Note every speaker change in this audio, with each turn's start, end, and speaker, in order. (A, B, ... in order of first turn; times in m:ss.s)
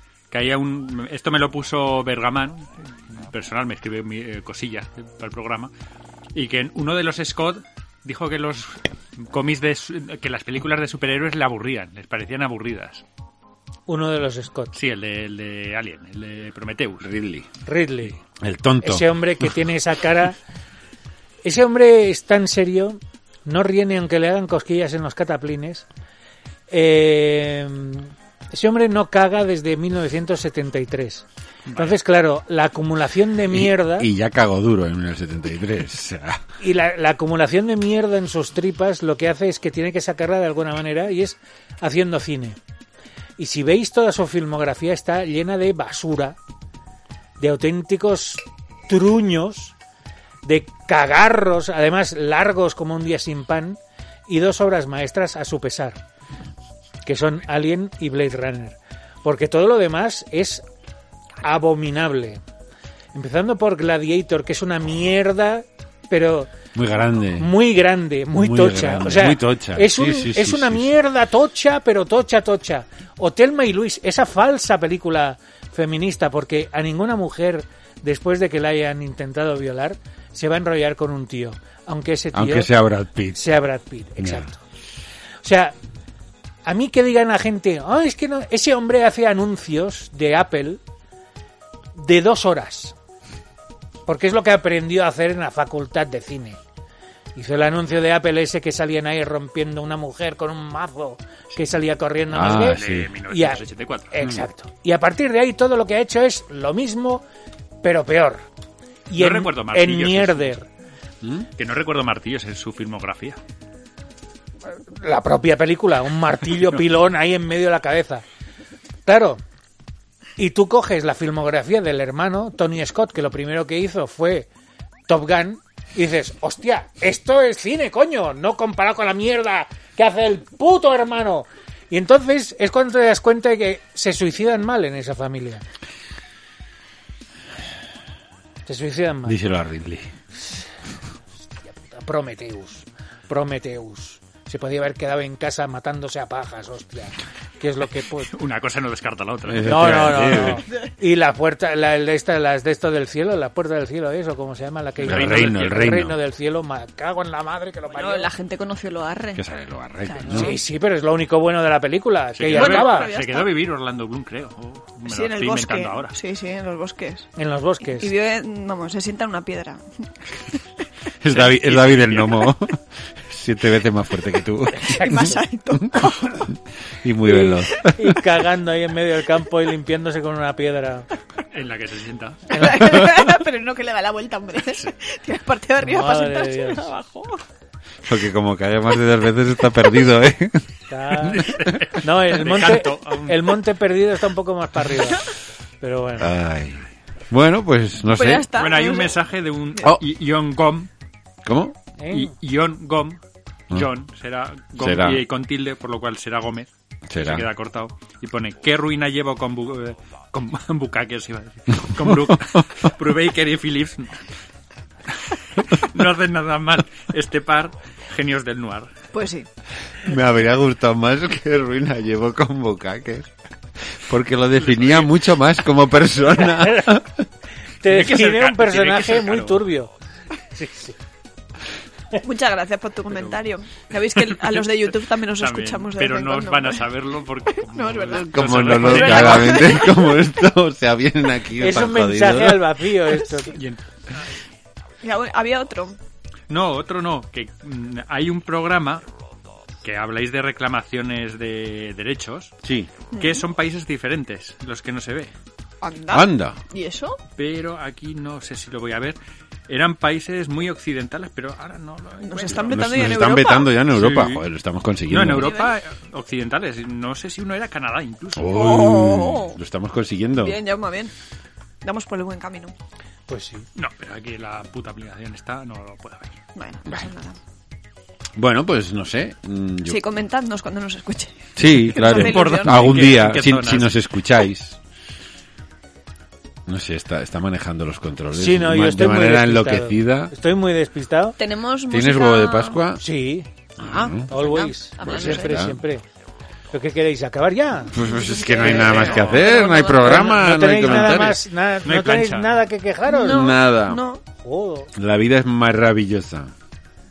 0:00.3-0:05.7 A
0:06.3-0:13.0 A
0:13.9-0:14.8 B
0:14.7-0:17.1 A
0:17.0-0:17.5 C
0:17.6-0:18.2 B
0:18.4-0:19.5 C
0:18.8-0:20.4 B
0:21.4-0:25.9 B
0:26.7-0:34.1 B
0:31.7-0:32.0 A
0:33.5-0:36.4 C
0:36.6-0:42.6 B
0:43.4-0:46.4 B
0:47.4-0:49.7 B
0:50.4-0:56.0 B
0:57.0-1:00.6 B
1:01.4-1:02.4 B
1:03.2-1:06.5 B
1:06.7-1:07.5 C
1:07.4-1:22.7 B
1:08.4-1:10.9 C
1:22.3-1:23.6 C
1:23.3-1:24.6 B
1:24.2-1:24.5 C
1:25.4-1:25.8 B
1:26.6-1:30.8 B
1:32.0-1:33.0 B
1:34.1-1:36.6 B
1:37.4-1:47.2 B
1:42.3-1:43.2 C
1:42.5-1:44.1 A
1:47.8-1:48.4 B
1:49.1-1:50.7 B
1:49.2-1:50.5 A
1:51.2-1:51.5 C
1:51.6-1:53.4 A
1:54.7-1:58.2 B
1:59.1-1:59.4 B
2:00.4-2:04.5 B
2:05.1-2:15.6 B
2:18.7-2:19.4 B
2:19.2-2:20.1 C
2:21.7-2:28.3 B
2:28.3-2:30.3 A
2:29.5-2:30.6 C
2:29.6-2:38.3 B
2:35.0-2:35.9 A
2:35.1-2:36.2 C
2:37.9-2:39.5 D
2:39.4-2:40.6 C
2:40.1-2:40.4 D
2:40.3-2:43.1 B
2:42.4-2:46.2 A
2:42.5-2:43.5 D
2:45.1-2:47.3 D
2:47.4-2:48.1 B
2:47.8-2:50.6 D
2:51.2-2:58.2 C
2:51.3-2:52.6 A
2:54.8-2:55.4 B
2:54.9-2:56.5 D
2:57.3-3:01.1 B
3:01.5-3:02.5 A
3:02.5-3:07.4 D
3:05.8-3:06.9 B
3:08.0-3:10.7 C
3:10.9-3:15.3 B
3:11.2-3:13.6 A
3:11.4-3:11.8 C
3:15.8-3:16.3 B
3:16.2-3:18.5 C
3:18.1-3:19.2 D
3:18.6-3:20.9 A
3:21.4-3:21.8 C
3:22.0-3:22.3 B
3:22.1-3:23.2 A
3:23.7-3:34.2 A
3:24.8-3:25.2 C
3:27.1-3:27.5 C
3:32.0-3:32.4 C
3:35.2-3:38.9 A
3:39.1-3:39.5 D
3:40.0-3:47.3 C
3:44.6-3:45.2 A
3:46.5-3:47.0 B
3:47.8-3:49.9 B
3:47.9-3:49.6 A
3:50.5-3:51.0 B
3:52.2-3:56.8 D
3:54.1-3:54.7 A
3:55.4-3:59.9 A
3:57.5-4:00.3 D
3:58.1-4:02.7 C
4:01.6-4:03.6 B
4:03.5-4:03.8 A
4:05.0-4:06.0 D
4:06.5-4:09.0 A
4:09.8-4:12.6 A
4:12.6-4:12.9 C
4:13.1-4:13.4 D
4:13.2-4:15.3 A
4:15.8-4:17.2 D
4:16.1-4:16.6 C
4:17.4-4:22.9 A
4:22.2-4:23.7 D
4:22.5-4:25.6 C
4:23.9-4:24.5 A
4:25.1-4:28.5 A
4:25.3-4:25.8 D
4:28.4-4:30.6 C
4:28.5-4:29.6 D
4:30.4-4:31.1 D
4:31.8-4:32.7 D
4:33.3-4:33.7 B
4:33.8-4:36.4 A
4:36.6-4:37.4 D
4:38.4-4:40.0 C
4:39.8-4:43.1 D
4:41.6-4:44.8 C
4:42.0-4:44.0 A
4:46.7-4:50.3 C
4:48.3-4:51.4 B
4:51.4-4:52.8 D
4:51.9-4:53.0 C
4:53.0-4:53.5 B
4:53.8-4:54.3 C
4:53.8-4:55.7 D
4:54.3-4:56.0 B
4:55.0-4:55.8 C
4:56.7-4:58.0 B
4:57.9-5:01.4 C
4:58.0-5:00.3 D
4:58.6-5:03.5 B
5:01.8-5:02.6 A
5:03.1-5:04.2 D
5:03.2-5:04.0 C
5:04.4-5:04.9 B
5:05.0-5:06.5 C